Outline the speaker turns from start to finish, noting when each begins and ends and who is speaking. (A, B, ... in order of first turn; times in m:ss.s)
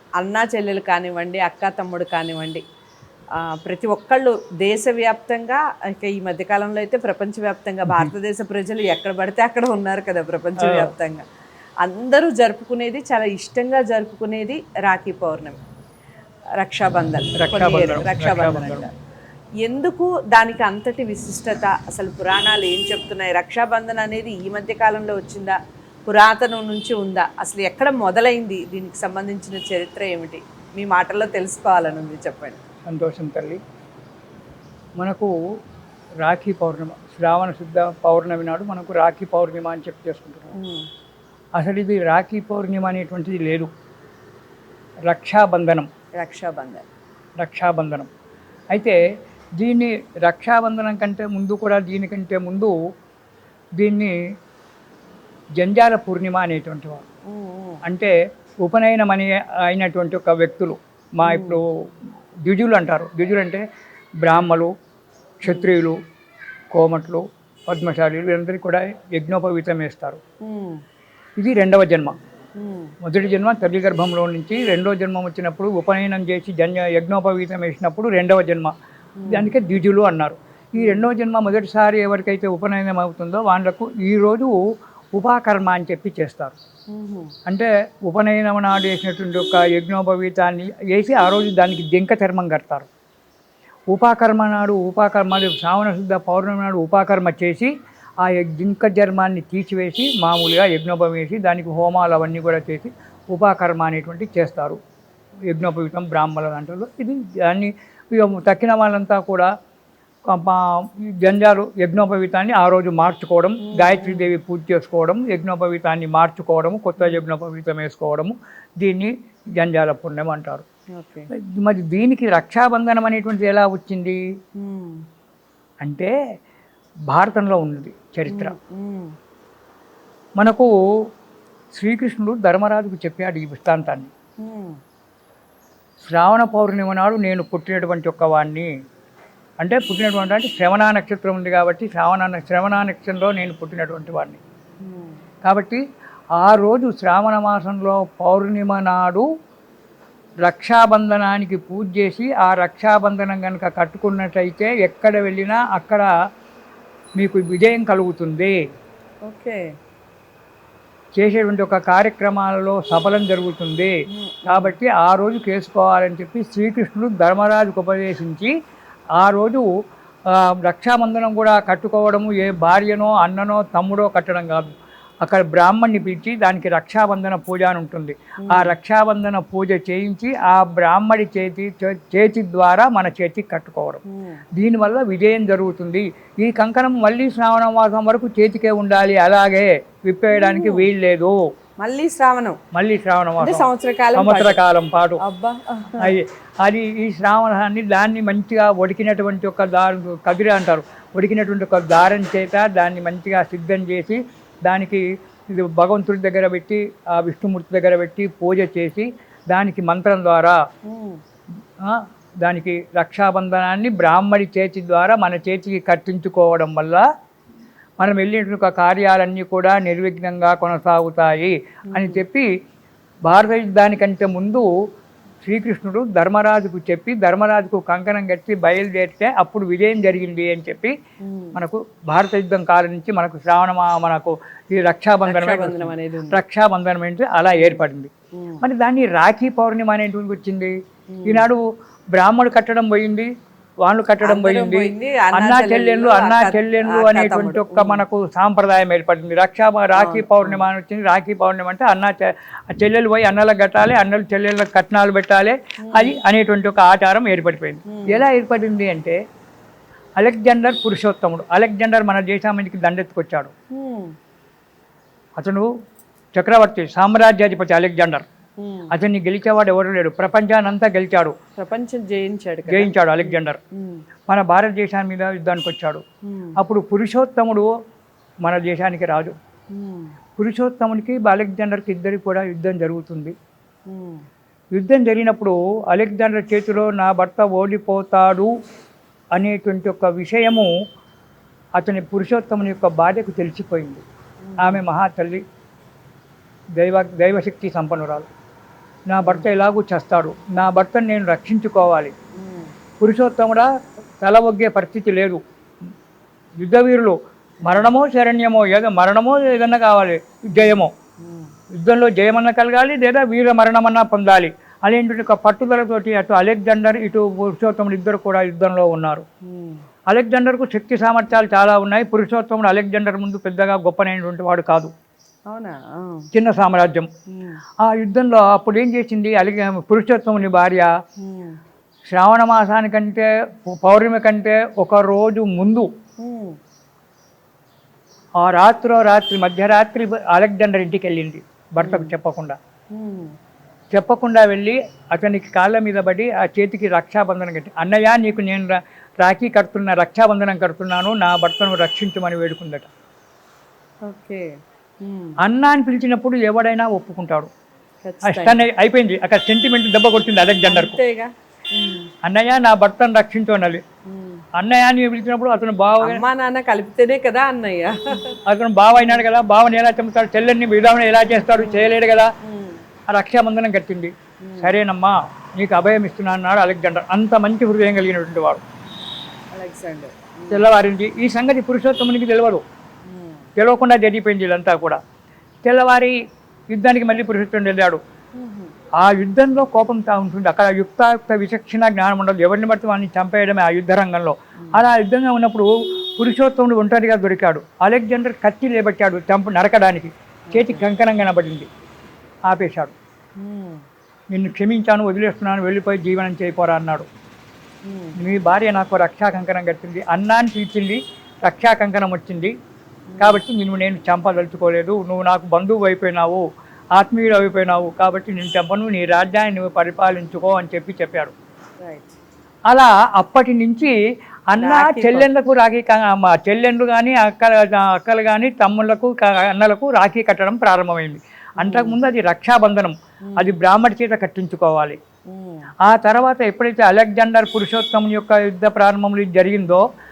0:00.2-0:02.6 A
0:03.4-0:11.2 A
0:10.6-0:10.9 B
0:11.8-0:15.6 A
0:16.6-0:18.9 A
0:17.4-0:18.9 B
0:19.6-0:32.6 A
0:32.9-0:33.6 B
0:35.0-0:35.3 B
0:36.2-0:40.6 B
0:40.6-0:40.8 A
0:41.6-0:43.7 B
0:45.1-0:45.9 B
0:46.2-0:46.8 A
0:47.4-0:48.1 B
0:48.7-0:49.0 B
0:49.6-0:52.7 B
0:53.8-0:54.1 B
0:55.6-0:57.0 B
0:57.3-0:57.8 A
0:57.8-0:58.1 B
0:58.6-1:01.6 B
1:01.2-1:01.6 A
1:02.5-1:03.6 B
1:04.2-1:04.7 B
1:05.4-1:06.0 B
1:06.7-1:10.2 B
1:10.4-1:10.8 A
1:11.4-1:12.2 B
1:12.6-1:12.9 A
1:13.0-1:18.7 B
1:19.2-1:19.5 A
1:19.3-1:24.6 B
1:20.8-1:21.1 A
1:25.2-1:26.6 B
1:26.9-1:27.3 A
1:27.5-1:32.9 B
1:33.9-1:44.8 B
1:45.5-1:49.5 B
1:50.3-2:00.6 B
1:53.6-1:54.3 A
2:01.0-2:01.3 A
2:01.5-2:04.2 B
2:04.6-2:05.0 A
2:05.8-2:06.1 B
2:07.1-2:08.5 B
2:08.3-2:09.1 A
2:10.4-2:10.7 B
2:11.7-2:14.1 B
2:14.4-2:14.8 A
2:16.0-2:18.7 B
2:19.6-2:24.4 B
2:24.8-2:25.2 A
2:25.4-2:25.8 B
2:26.4-2:29.2 B
2:30.4-2:36.1 B
2:37.2-2:38.5 B
2:39.3-2:39.6 A
2:41.1-2:43.9 B
2:44.1-2:44.8 A
2:44.5-2:48.5 B
2:49.2-2:49.7 B
2:50.3-2:54.7 B
2:55.2-3:04.0 B
2:58.4-2:58.7 A
3:04.1-3:04.4 A
3:04.6-3:11.4 B
3:10.3-3:10.9 A
3:11.8-3:12.6 A
3:12.7-3:15.2 B
3:13.4-3:14.6 A
3:15.2-3:16.1 A
3:16.0-3:30.6 B
3:30.9-3:31.2 A
3:31.8-3:37.0 B
3:38.0-3:42.5 B
3:41.9-3:42.2 A
3:43.3-3:44.7 B
3:45.4-3:50.9 B
3:51.2-3:51.6 A
3:51.6-3:58.1 B
3:55.3-3:56.4 A
3:58.4-3:58.6 A
3:58.6-4:00.7 B
4:01.1-4:01.5 A
4:01.3-4:01.6 B
4:02.1-4:03.3 B
4:03.8-4:19.2 B
4:04.2-4:08.0 A
4:10.0-4:10.6 A
4:15.8-4:16.2 A
4:17.9-4:18.2 A
4:20.2-4:23.5 B
4:23.7-4:24.1 A
4:25.4-4:25.7 B
4:26.4-4:28.2 B
4:28.6-4:28.9 A
4:28.9-4:31.3 B
4:31.6-4:34.0 A
4:32.7-4:33.6 B
4:34.3-4:36.0 B
4:36.3-4:36.6 A
4:36.6-4:37.7 B
4:38.4-4:39.4 B
4:39.7-4:40.2 A
4:40.4-4:43.4 B
4:43.9-4:44.2 A
4:44.8-4:48.5 B
4:49.4-4:50.7 B
4:51.8-4:54.0 B
4:54.4-4:54.8 A
4:54.6-4:55.4 B
4:56.8-4:58.3 B
4:59.1-5:02.1 B
5:02.4-5:02.7 A
5:03.0-5:03.7 B
5:04.2-5:05.4 B
5:06.6-5:10.9 B
5:07.6-5:07.9 A
5:10.6-5:11.5 A
5:11.8-5:19.2 B
5:19.5-5:19.8 A
5:20.1-5:24.9 B
5:25.5-5:26.3 A
5:26.3-5:27.1 B
5:27.3-5:27.6 A
5:27.8-5:30.9 B
5:31.2-5:31.6 A
5:32.1-5:35.9 B
5:36.2-5:36.6 A
5:38.4-5:42.6 B
5:41.8-5:42.1 A
5:42.9-5:43.3 A
5:43.9-5:52.9 B
5:54.1-5:54.5 A
5:55.0-5:55.4 A
5:55.4-5:57.5 B
5:58.0-5:58.6 A
5:58.3-6:01.0 B
6:00.6-6:02.1 A
6:02.2-6:03.8 B
6:04.1-6:04.4 A
6:04.6-6:06.2 B
6:06.0-6:08.3 A
6:08.5-6:12.3 B
6:09.0-6:09.2 A
6:11.6-6:11.9 A
6:12.4-6:12.8 A
6:13.1-6:18.6 B
6:14.4-6:14.8 A
6:19.5-6:20.6 A
6:20.5-6:22.6 B
6:23.0-6:23.5 A
6:23.6-6:25.0 B
6:25.6-6:26.2 B
6:26.7-6:28.0 B
6:28.4-6:28.7 A
6:29.0-6:41.7 B
6:40.5-6:40.8 A
6:42.5-6:42.9 B
6:43.4-6:43.8 A
6:44.3-6:47.1 B
6:47.9-6:48.2 A
6:48.2-6:52.5 B
6:53.1-6:53.4 A
6:53.2-6:56.4 B
6:57.0-7:01.3 B
7:01.8-7:02.2 A
7:02.7-7:04.0 B
7:04.5-7:15.0 B
7:04.6-7:05.3 A
7:11.6-7:12.0 A
7:13.3-7:13.6 A
7:15.3-7:15.7 A
7:15.9-7:19.8 B